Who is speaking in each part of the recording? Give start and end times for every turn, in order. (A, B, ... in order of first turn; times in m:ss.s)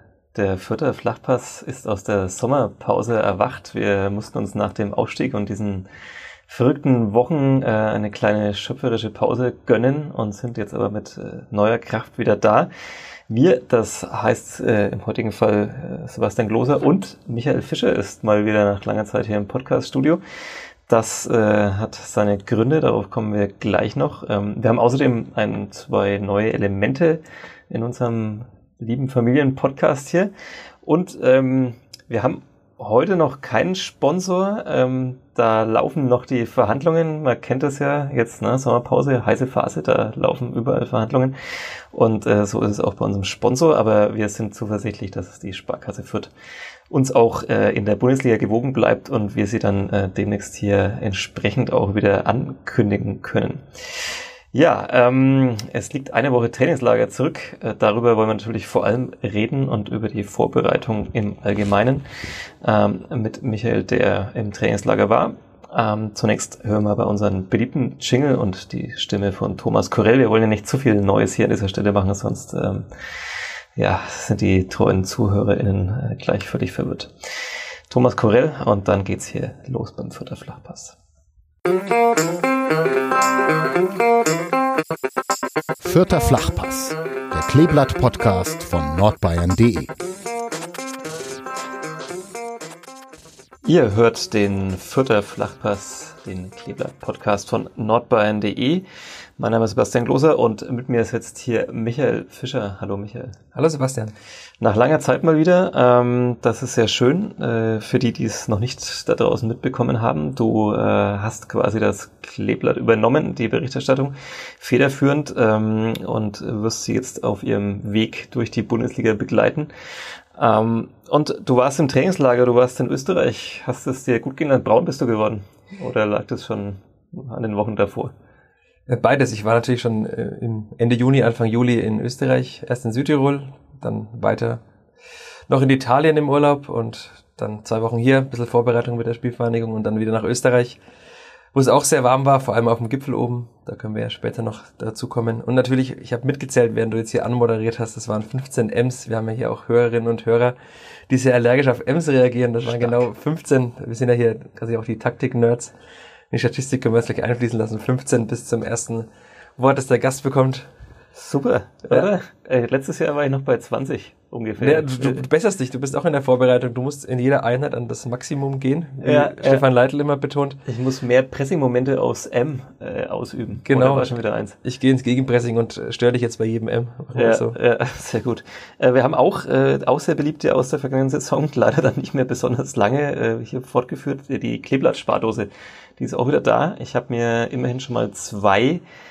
0:00.4-0:05.9 A
0:06.5-0:12.7 A
0:13.3-0:20.2 A
0:20.9-0:30.3 A
0:30.8-0:41.3 A
0:41.9-0:46.3 A
0:46.9-1:02.0 A
1:02.6-1:12.9 A
1:13.8-1:17.1 A
1:17.9-1:21.0 A
1:25.8-1:29.9 B
1:33.6-1:38.8 A
1:39.4-1:43.4 A
1:43.5-1:44.1 C
1:44.6-1:59.7 A
2:00.4-2:08.1 A
2:08.9-2:14.6 C
2:15.5-2:20.8 C
2:21.5-2:30.6 C
2:31.1-2:35.7 C
2:32.6-2:33.0 A
2:36.3-2:40.7 C
2:41.2-2:45.2 A
2:44.6-2:50.6 C
2:49.0-2:49.6 A
2:50.7-2:54.6 A
2:53.7-2:57.6 C
2:57.1-3:08.8 A